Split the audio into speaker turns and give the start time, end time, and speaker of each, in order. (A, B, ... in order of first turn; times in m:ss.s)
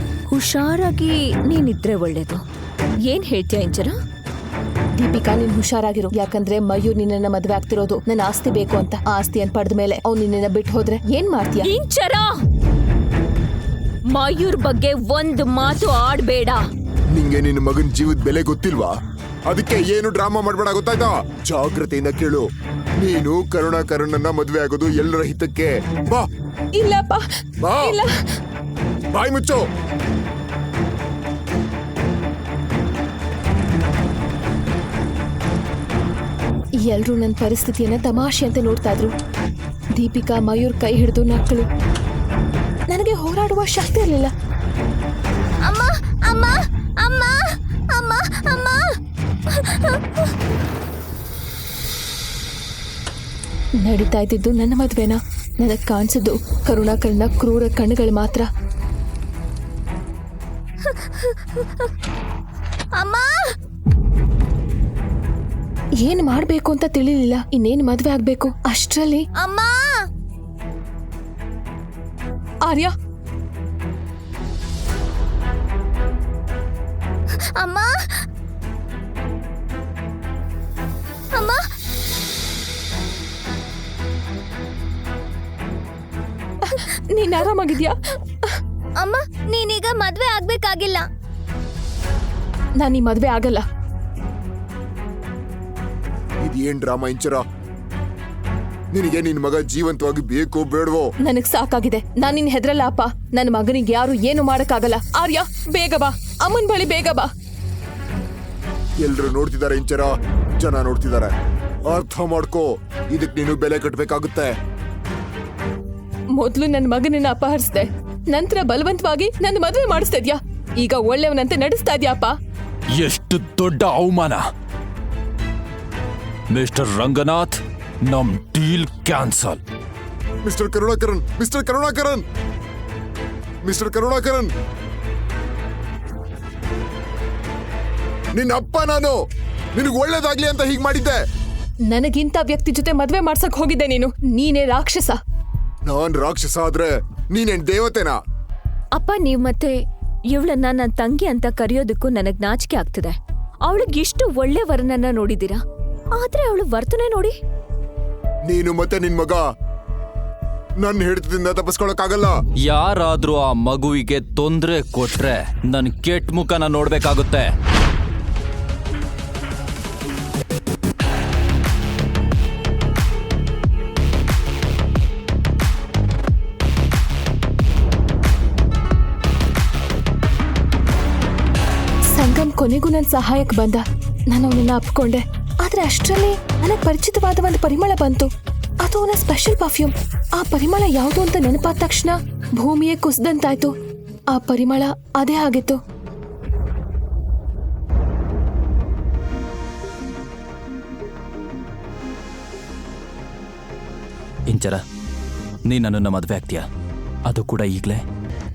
0:00.3-0:02.4 A
0:03.0-0:03.9 A
0:05.0-0:11.7 B
0:11.7-0:12.3 A
0:14.1-0:16.6 A
0:17.1-0:19.0 C
0:19.5-0:22.5 C
0:23.0-0:26.3 C
0:26.8-0:27.2 B
0:27.6-0:28.0 C
0:27.8-0:28.3 B
0:29.1-0:29.6 C
0:36.8-0:39.2 B
0:40.0-0:41.7 B
0:42.9-0:44.3 B
0:45.6-0:50.3 D
0:53.8-0:58.5 B
1:00.8-1:01.9 D
1:03.0-1:03.5 D
1:06.0-1:09.3 B
1:09.4-1:10.1 D
1:12.6-1:12.9 B
1:17.6-1:18.2 D
1:21.3-1:21.6 D
1:26.6-1:28.0 B
1:29.0-1:31.1 D
1:32.8-1:33.6 B
1:36.4-1:37.4 C
1:38.9-1:41.1 C
1:41.2-1:47.3 B
1:49.0-1:51.4 C
1:51.9-1:54.6 C
1:56.4-2:02.4 B
2:02.9-2:04.4 E
2:06.5-2:09.6 E
2:10.4-2:12.2 C
2:13.6-2:14.5 C
2:18.3-2:19.2 C
2:19.8-2:21.2 C
2:21.9-2:25.2 B
2:25.8-2:28.2 C
2:29.0-2:29.8 A
2:30.3-2:35.6 A
2:36.2-2:37.4 A
2:38.5-2:39.4 C
2:40.8-2:42.4 C
2:42.6-2:47.5 E
3:02.1-3:13.8 B
3:14.3-3:15.8 B
3:24.5-3:24.8 E
3:25.7-3:26.6 E
3:27.3-3:28.0 E